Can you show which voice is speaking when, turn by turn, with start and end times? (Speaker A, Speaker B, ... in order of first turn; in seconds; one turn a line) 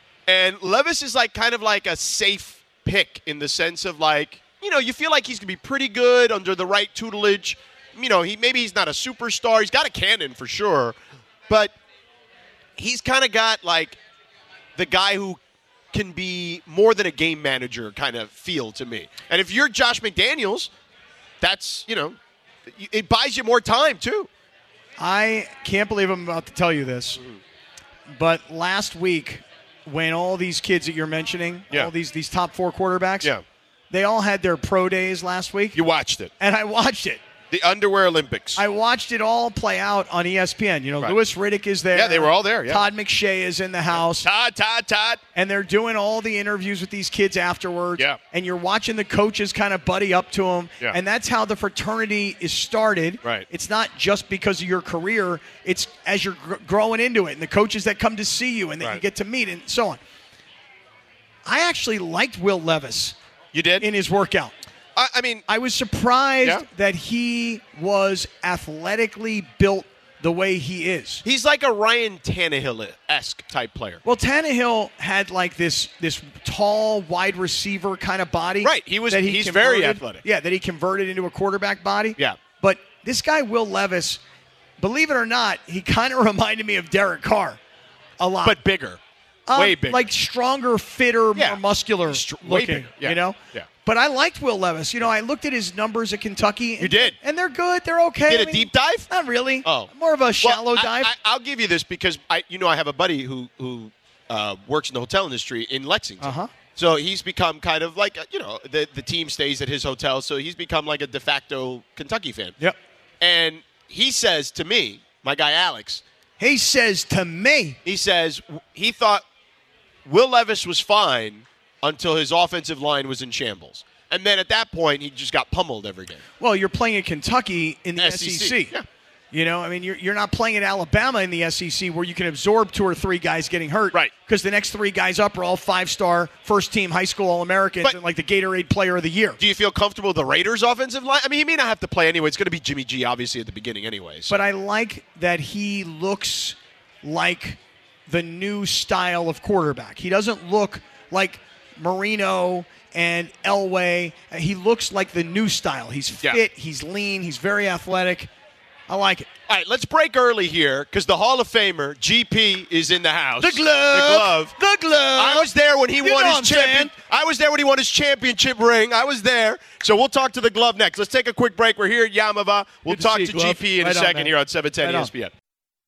Speaker A: 0.3-11.0
Speaker A: 11.5-11.7
Speaker A: 12.8-14.0
Speaker A: 14.8-15.4
Speaker A: 15.9-20.7
Speaker A: 21.4-24.3
Speaker B: 25.0-27.2
Speaker B: 28.1-33.3
Speaker B: 33.9-35.8
Speaker A: 35.8-36.3
Speaker B: 36.4-37.2
Speaker A: 37.5-38.6
Speaker B: 38.6-44.3
Speaker A: 41.9-42.9
Speaker A: 43.9-45.2
Speaker B: 45.4-60.0
Speaker B: 61.5-63.2
Speaker A: 63.5-63.9
Speaker B: 63.8-64.5
Speaker A: 65.0-65.5
Speaker B: 65.5-71.2
Speaker A: 71.2-74.0
Speaker B: 74.0-84.2
Speaker A: 78.6-80.2
Speaker A: 82.2-82.4
Speaker B: 84.8-87.6
Speaker B: 88.2-88.6
Speaker A: 88.4-89.0
Speaker B: 89.5-101.1
Speaker A: 89.5-90.1
Speaker A: 91.3-93.7
Speaker A: 96.8-97.2
Speaker A: 98.3-99.1
Speaker A: 99.6-112.6
Speaker B: 106.2-106.5
Speaker A: 113.2-116.0
Speaker B: 116.4-117.8
Speaker A: 117.8-119.2
Speaker A: 120.1-126.2
Speaker B: 126.4-128.7
Speaker A: 128.0-128.8
Speaker B: 129.3-139.4
Speaker A: 139.4-144.4
Speaker B: 144.3-158.3
Speaker B: 158.9-159.3
Speaker A: 159.5-164.5
Speaker B: 163.4-166.9
Speaker A: 165.2-175.3
Speaker B: 172.9-175.1